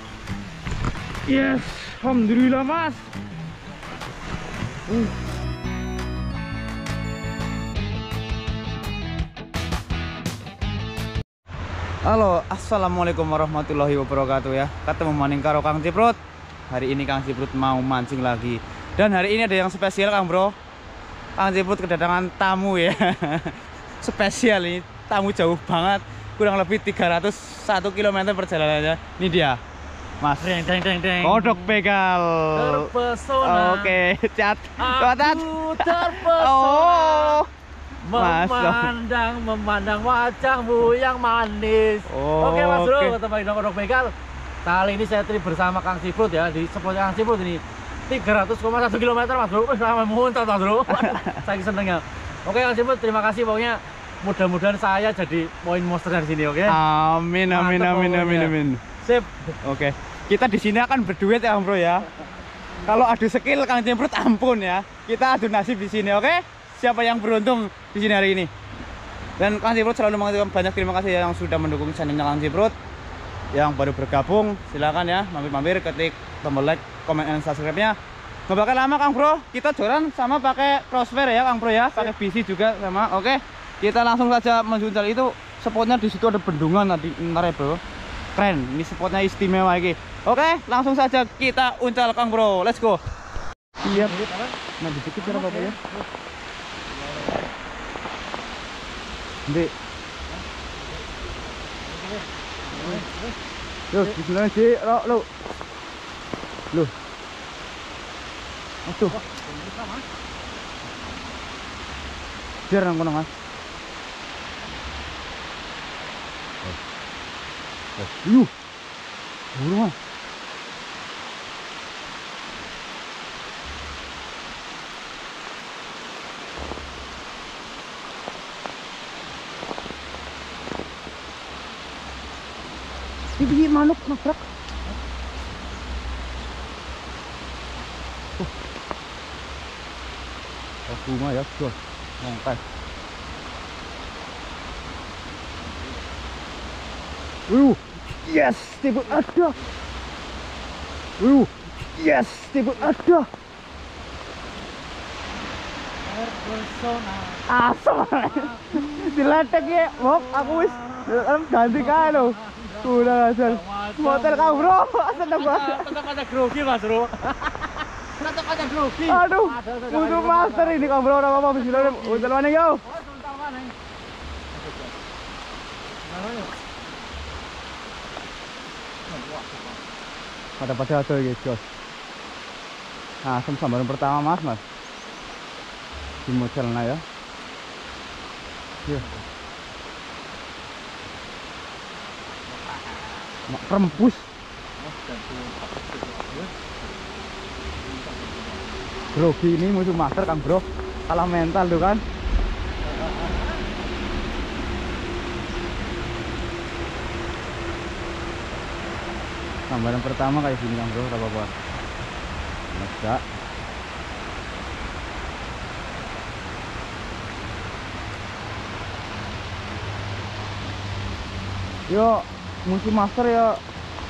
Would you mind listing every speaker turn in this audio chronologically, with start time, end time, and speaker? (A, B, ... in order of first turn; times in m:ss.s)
0:01.3-0:03.1 A
0:04.9-0:05.1 A
0:12.0-0:16.2 A
0:16.7-0:20.5 A
0:21.4-0:29.6 A
0:30.2-0:30.6 A
0:30.4-0:31.8 B
0:31.2-0:32.9 A
0:32.5-0:34.0 B
0:33.4-0:37.5 A
0:34.8-0:37.4 B
0:38.0-0:56.8 B
0:38.1-0:38.9 A
0:42.1-0:43.2 A
0:50.9-0:51.4 A
0:56.7-0:58.8 A
0:57.5-0:59.6 B
0:59.6-1:02.1 A
1:02.8-1:08.5 A
1:09.4-1:12.8 A
1:13.5-1:18.0 A
1:18.5-1:27.8 A
1:28.3-1:33.0 A
1:33.8-1:34.2 A
1:33.8-1:34.6 B
1:34.8-1:35.8 A
1:35.2-1:36.1 B
1:36.9-1:37.5 B
1:39.5-1:39.7 A
1:41.8-1:43.4 B
1:43.9-1:45.2 A
1:48.8-1:49.2 A
1:49.1-1:50.1 B
1:52.7-1:53.3 A
1:58.0-1:58.5 A
1:59.5-2:00.0 A
2:13.4-2:14.5 A
2:20.9-2:22.6 A
2:27.5-2:29.6 A
2:31.2-2:33.3 A
2:36.0-2:37.4 B
2:37.5-2:45.9 A
2:38.3-2:38.7 B
2:39.4-2:52.3 B
2:49.0-2:52.8 A
2:52.8-2:53.7 B
2:54.5-2:54.9 B
2:56.0-2:56.5 B
2:59.1-2:59.8 B
3:00.6-3:01.6 A
3:03.2-3:04.6 A
3:06.2-3:07.0 A
3:08.9-3:09.2 B
3:13.5-3:14.3 A
3:14.8-3:16.6 B
3:17.9-3:18.7 B
3:19.1-3:22.0 A
3:23.0-3:23.5 B
3:29.7-3:31.5 A
3:32.7-3:33.2 A
3:41.9-3:43.6 A